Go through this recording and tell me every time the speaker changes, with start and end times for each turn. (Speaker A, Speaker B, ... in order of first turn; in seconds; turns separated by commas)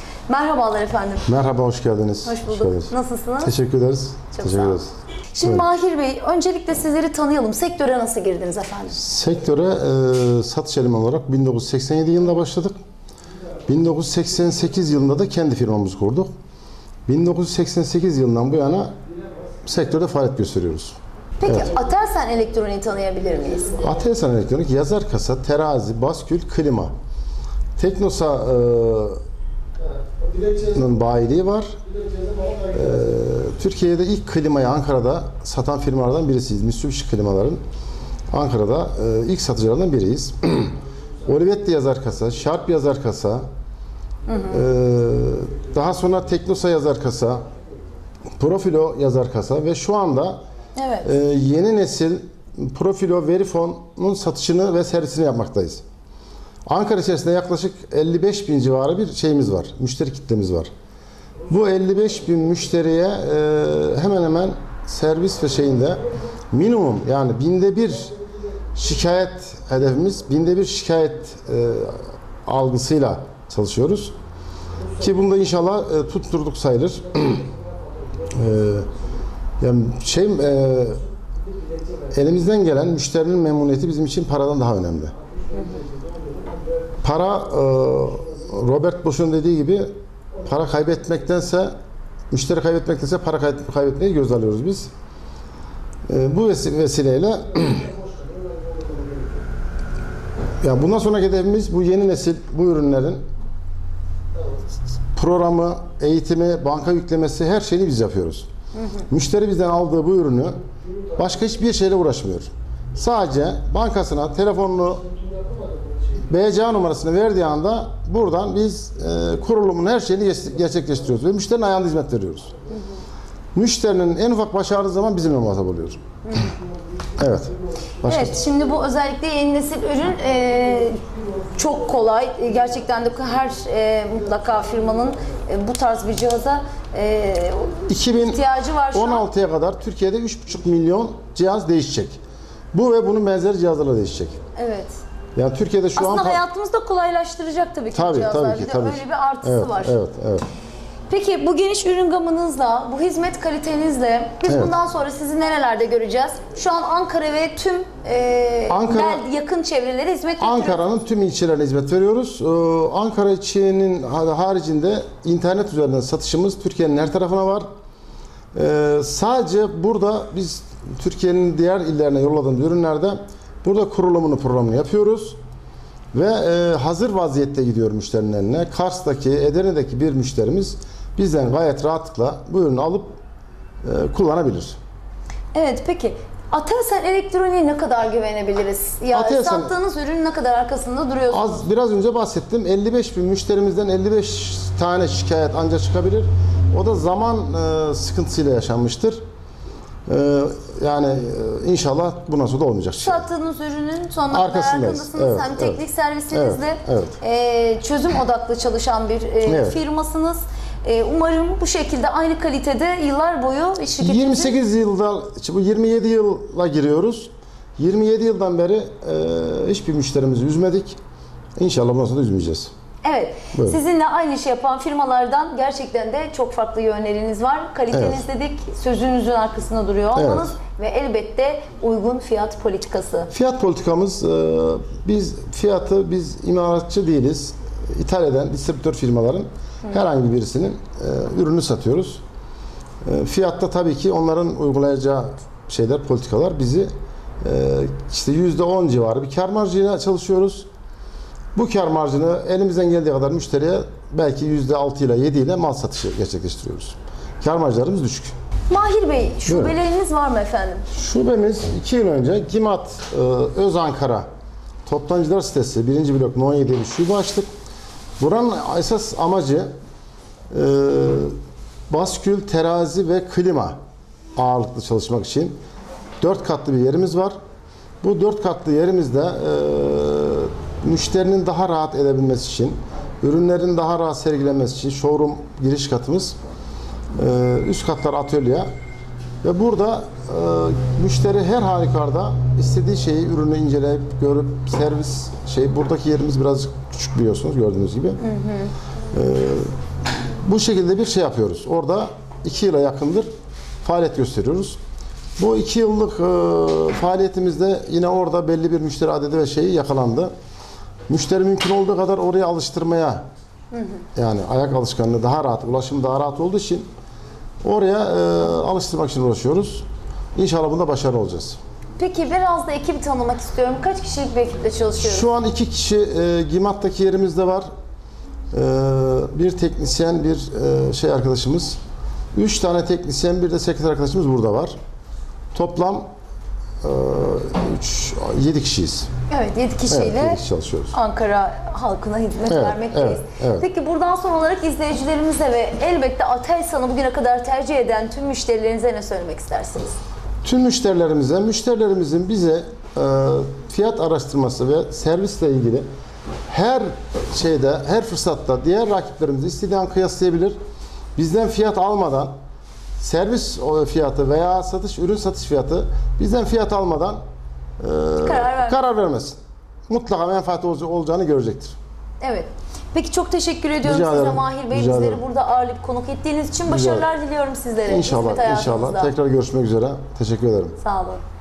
Speaker A: 0.3-1.3, Speaker B: 1.2-4.9, Speaker A: 2.2-3.5, Speaker A: 4.3-4.8, Speaker A: 5.3-9.0, Speaker B: 8.9-12.8, Speaker B: 13.7-16.3, Speaker B: 17.1-18.9, Speaker B: 19.6-21.7, Speaker A: 21.4-23.8, Speaker B: 23.8-26.9, Speaker B: 27.8-29.2, Speaker B: 30.5-31.8, Speaker B: 32.7-37.6, Speaker B: 38.3-43.4, Speaker A: 44.2-44.6, Speaker B: 44.5-47.5, Speaker B: 48.4-50.4, Speaker A: 50.8-51.1, Speaker B: 51.0-55.8, Speaker B: 56.6-60.7, Speaker B: 61.5-68.1, Speaker B: 68.7-74.1, Speaker B: 75.0-77.5, Speaker B: 78.3-78.9, Speaker B: 79.6-81.0, Speaker B: 82.1-85.1, Speaker B: 87.0-91.7, Speaker B: 92.3-94.9, Speaker B: 96.1-97.9, Speaker B: 100.6-103.2, Speaker B: 105.1-108.5, Speaker B: 109.1-110.5, Speaker B: 111.2-115.0, Speaker B: 116.2-122.5, Speaker B: 123.5-126.0, Speaker A: 126.3-126.5, Speaker B: 127.2-128.4, Speaker A: 128.0-139.2, Speaker B: 137.9-138.4, Speaker B: 138.9-142.2, Speaker B: 142.7-144.3, Speaker A: 144.6-145.0, Speaker B: 145.3-146.4, Speaker A: 145.9-150.0, Speaker B: 147.9-150.5, Speaker A: 151.1-160.8, Speaker B: 154.5-154.7, Speaker B: 158.7-159.2, Speaker B: 160.4-167.7, Speaker B: 168.5-175.4, Speaker B: 176.1-183.2, Speaker B: 183.8-184.8, Speaker A: 185.5-191.6, Speaker B: 189.1-189.7, Speaker B: 191.3-199.2, Speaker B: 200.1-203.2, Speaker A: 203.0-214.5, Speaker B: 204.3-207.2, Speaker B: 209.4-209.8, Speaker B: 214.0-221.0, Speaker B: 221.6-222.7, Speaker A: 223.0-233.3, Speaker B: 223.5-223.8, Speaker B: 227.9-228.2, Speaker B: 230.1-230.5, Speaker B: 233.3-242.2, Speaker B: 243.0-246.9, Speaker B: 247.4-250.7, Speaker B: 251.5-258.3, Speaker A: 258.7-260.8, Speaker B: 259.5-259.8, Speaker B: 260.9-264.2, Speaker B: 264.9-267.5, Speaker B: 268.2-269.7, Speaker B: 270.5-271.3, Speaker B: 271.9-273.8, Speaker B: 274.4-275.6, Speaker B: 276.2-277.3, Speaker B: 278.0-286.3, Speaker B: 287.1-288.7, Speaker B: 289.4-298.2, Speaker A: 298.2-298.7, Speaker B: 299.1-299.7, Speaker B: 300.4-303.3, Speaker B: 303.8-304.8, Speaker B: 305.4-310.3, Speaker B: 311.1-313.2, Speaker A: 313.7-314.0, Speaker B: 314.1-316.9, Speaker B: 317.6-321.6, Speaker A: 322.0-325.3, Speaker B: 325.0-327.7, Speaker B: 328.5-331.8, Speaker B: 332.3-334.7, Speaker B: 335.5-336.1, Speaker B: 336.8-339.1, Speaker A: 339.3-340.4, Speaker B: 339.9-340.9, Speaker A: 340.9-350.0, Speaker B: 342.5-343.6, Speaker B: 350.4-355.9, Speaker B: 356.5-360.6, Speaker B: 361.1-362.3, Speaker B: 363.0-367.2, Speaker B: 367.8-369.4, Speaker A: 368.2-368.9, Speaker B: 369.9-371.8, Speaker A: 372.2-379.1, Speaker B: 373.8-375.2, Speaker B: 376.7-377.1, Speaker B: 377.9-380.8, Speaker A: 380.8-381.2